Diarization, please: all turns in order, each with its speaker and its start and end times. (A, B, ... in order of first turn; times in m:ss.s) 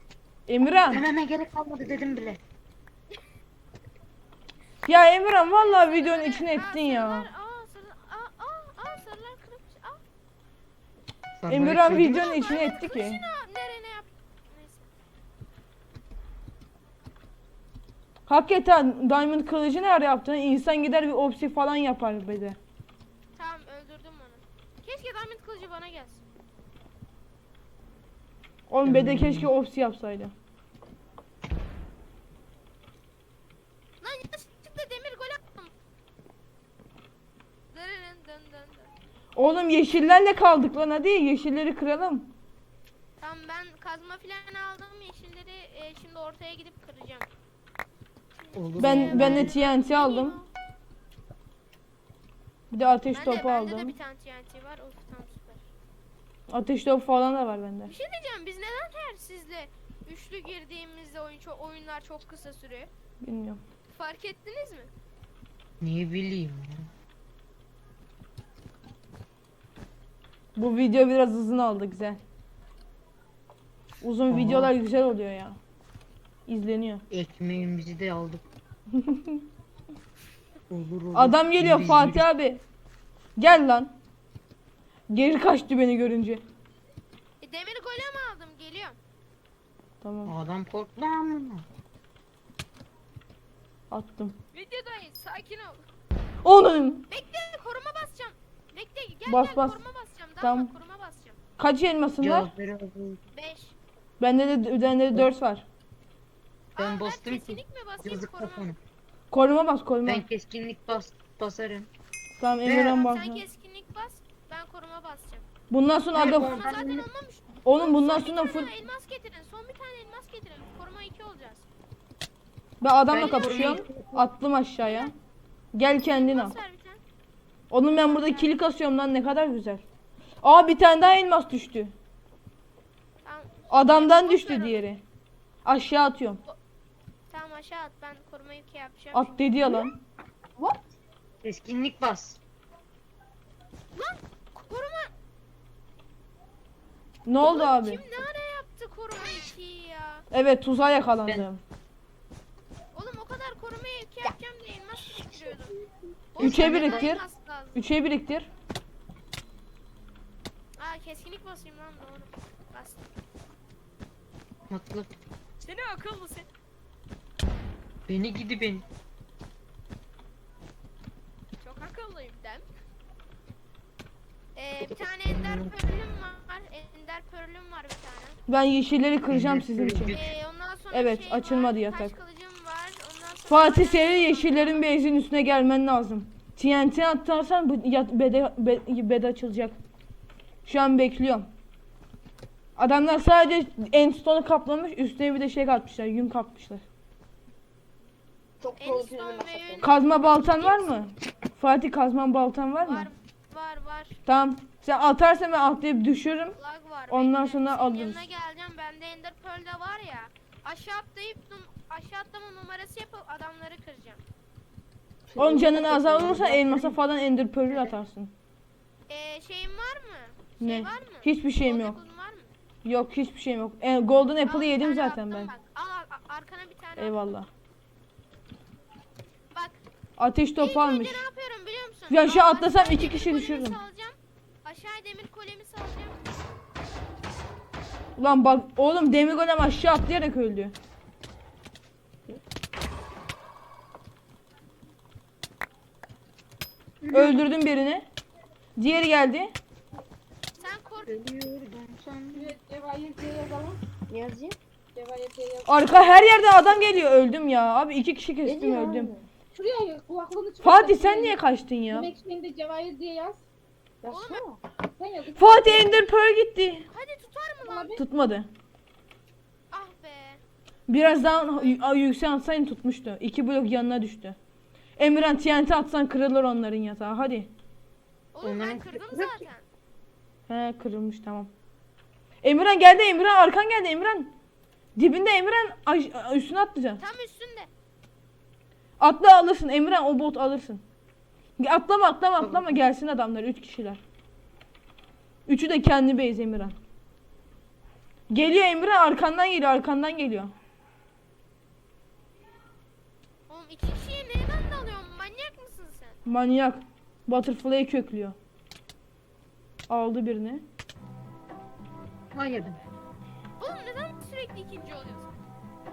0:00.5-0:01.0 A
0:00.9-0:02.4 B
0:04.9-0:07.3 A
0:04.9-0:10.0 C
0:11.4-0:12.3 B
0:11.5-0:13.2 A
0:11.8-0:14.9 C
0:18.3-0:22.6 A
0:23.4-0:26.2 C
0:28.7-0:30.3 A
0:28.8-0:29.5 B
0:34.0-0:35.7 C
0:37.7-0:38.9 C
0:39.4-0:42.3 A
0:43.2-0:47.3 C
0:48.4-0:50.5 C
0:48.5-0:49.6 B
0:48.8-0:50.4 A
0:52.7-0:54.0 A
0:53.1-0:55.7 C
0:56.5-0:57.9 A
0:57.9-1:02.9 C
1:03.2-1:03.6 A
1:03.9-1:04.9 C
1:05.8-1:06.9 B
1:10.6-1:12.2 A
1:14.0-1:15.6 A
1:14.3-1:14.7 B
1:16.5-1:17.0 A
1:17.1-1:18.4 B
1:18.9-1:19.4 A
1:20.7-1:22.2 B
1:21.1-1:22.6 A
1:23.4-1:23.9 A
1:25.1-1:26.4 A
1:27.4-1:29.0 C
1:30.0-1:30.3 A
1:30.3-1:31.6 B
1:33.9-1:34.4 A
1:34.5-1:35.8 C
1:36.4-1:37.1 A
1:37.1-1:41.4 C
1:39.3-1:39.8 A
1:40.4-1:40.7 A
1:41.6-1:42.5 A
1:42.2-1:43.2 B
1:43.3-1:43.8 C
1:44.2-1:45.6 A
1:46.8-1:48.7 C
1:46.8-1:48.8 B
1:49.3-1:50.2 A
1:50.0-1:51.9 B
1:52.4-1:53.4 A
1:52.6-1:53.0 B
1:52.8-1:55.5 C
1:55.7-1:56.7 A
1:56.1-1:57.1 B
1:56.2-2:01.7 C
1:57.6-1:58.7 A
2:02.8-2:05.1 A
2:03.1-2:04.2 B
2:04.8-2:05.1 C
2:05.7-2:06.6 A
2:06.0-2:07.0 C
2:07.7-2:09.8 A
2:07.8-2:08.6 C
2:10.4-2:11.9 A
2:13.2-2:14.9 C
2:13.7-2:15.0 A
2:15.6-2:16.4 A
2:17.3-2:19.4 C
2:19.1-2:20.0 A
2:21.4-2:22.4 B
2:23.9-2:25.1 C
2:27.3-2:28.0 A
2:27.4-2:30.2 C
2:30.3-2:31.6 A
2:32.9-2:35.8 C
2:36.3-2:37.9 C
2:36.4-2:37.2 A
2:36.4-2:37.1 B
2:37.8-2:38.5 A
2:40.8-2:43.1 C
2:44.7-2:45.1 B
2:45.6-2:46.5 C
2:48.1-2:48.8 B
2:51.6-2:52.7 C
2:54.6-2:58.4 C
2:55.3-2:55.7 B
2:58.5-3:00.2 A
2:59.3-3:00.3 B
3:00.1-3:04.9 C
3:00.9-3:02.2 A
3:03.5-3:09.8 A
3:10.6-3:11.5 A
3:12.8-3:16.8 A
3:18.6-3:19.8 D
3:18.8-3:21.1 C
3:19.8-3:23.1 A
3:22.8-3:24.2 C
3:24.3-3:26.6 A
3:26.5-3:34.2 C
3:27.1-3:28.3 A
3:35.3-3:36.9 D
3:35.4-3:38.3 A
3:35.8-3:36.6 B
3:39.1-3:42.5 C
3:40.6-3:42.0 A
3:42.8-3:45.5 A
3:44.4-3:47.2 C
3:47.0-3:47.5 A
3:49.5-3:49.8 C
3:50.2-3:51.2 A
3:50.6-3:56.3 C
3:52.1-3:53.8 A
3:58.2-4:00.7 A
4:07.0-4:07.4 B
4:07.1-4:08.0 A
4:08.8-4:09.5 A
4:10.6-4:11.1 C
4:11.1-4:12.6 B
4:12.3-4:15.8 D
4:15.7-4:19.1 A
4:18.4-4:21.4 D
4:20.6-4:22.1 A
4:21.9-4:23.4 D
4:24.0-4:26.2 D
4:24.1-4:24.4 C
4:25.4-4:26.9 A
4:26.9-4:28.0 C
4:27.6-4:28.0 D
4:27.9-4:28.5 A
4:29.7-4:30.4 C
4:30.9-4:34.4 A
4:35.0-4:37.5 A
4:38.3-4:39.6 C
4:38.4-4:39.4 B
4:40.5-4:41.5 A
4:42.4-4:44.3 A
4:45.0-4:47.0 A
4:47.0-4:47.7 C
4:49.0-4:50.8 A
4:51.6-4:54.0 A
4:52.4-4:52.8 B
4:55.5-4:56.8 A
4:58.3-5:00.5 A
5:03.5-5:06.2 C
5:06.3-5:08.4 A
5:09.9-5:10.6 A
5:12.3-5:12.8 B
5:13.6-5:15.4 C